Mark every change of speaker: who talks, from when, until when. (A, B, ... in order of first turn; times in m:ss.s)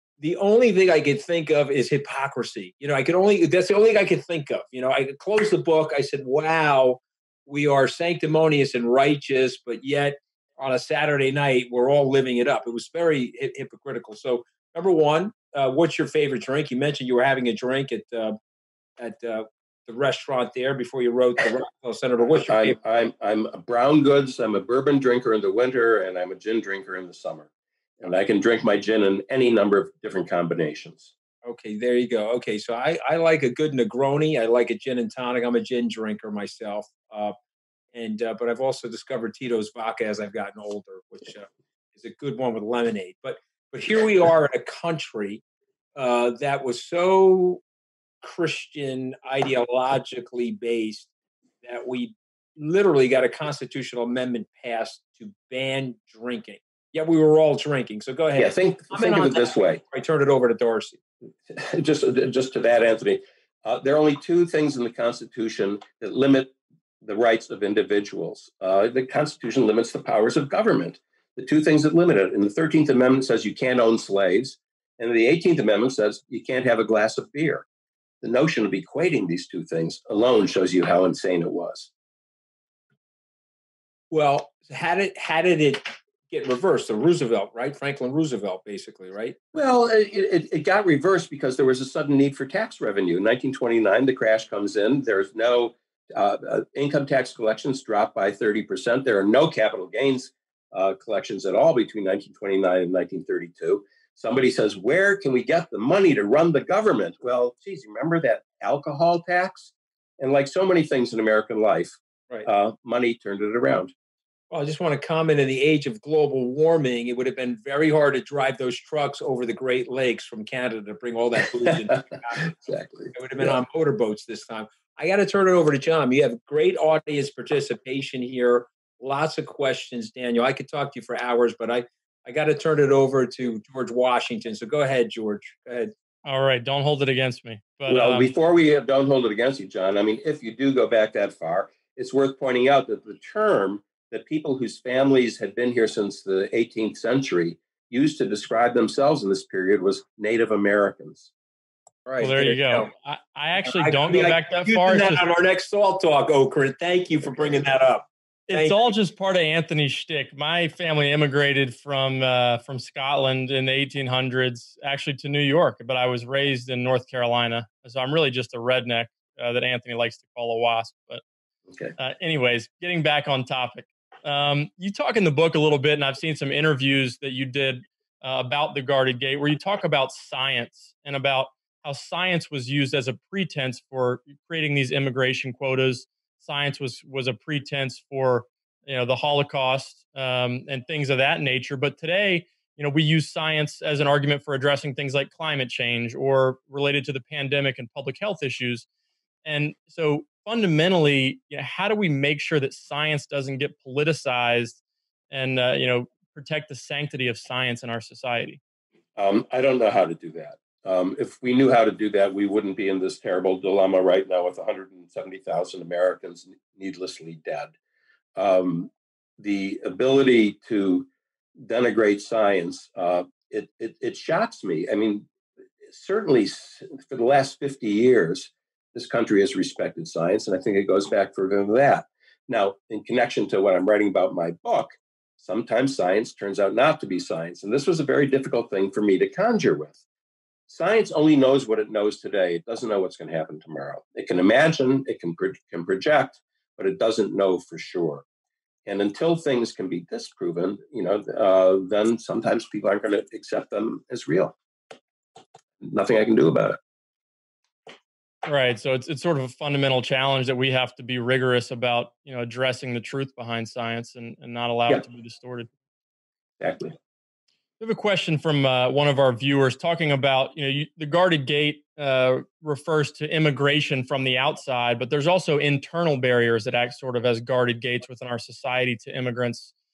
0:00.2-0:18.4 A
0:19.0-0:22.8 A
0:22.4-0:27.5 B
0:28.0-0:31.1 B
0:31.4-0:37.4 A
0:37.9-0:45.4 A
0:46.0-0:47.6 A
0:48.2-1:01.0 A
0:58.4-0:59.8 B
1:01.5-1:17.6 B
1:18.2-1:21.9 B
1:24.1-1:29.4 A
1:29.5-1:53.9 B
1:54.5-2:15.9 A
2:02.6-2:03.5 B
2:16.2-2:18.3 C
2:17.9-2:31.3 B
2:32.1-2:32.9 A
2:32.2-2:35.2 C
2:33.6-2:38.8 A
2:38.5-2:51.2 C
2:52.0-3:18.9 C
3:19.4-3:24.8 C
3:25.3-3:28.6 C
3:29.2-3:37.8 B
3:38.4-3:45.3 B
3:45.8-4:00.0 B
4:00.7-4:08.2 B
4:08.9-4:14.6 B
4:15.8-4:16.8 B
4:18.4-4:25.7 C
4:26.6-4:27.0 B
4:27.8-4:39.7 C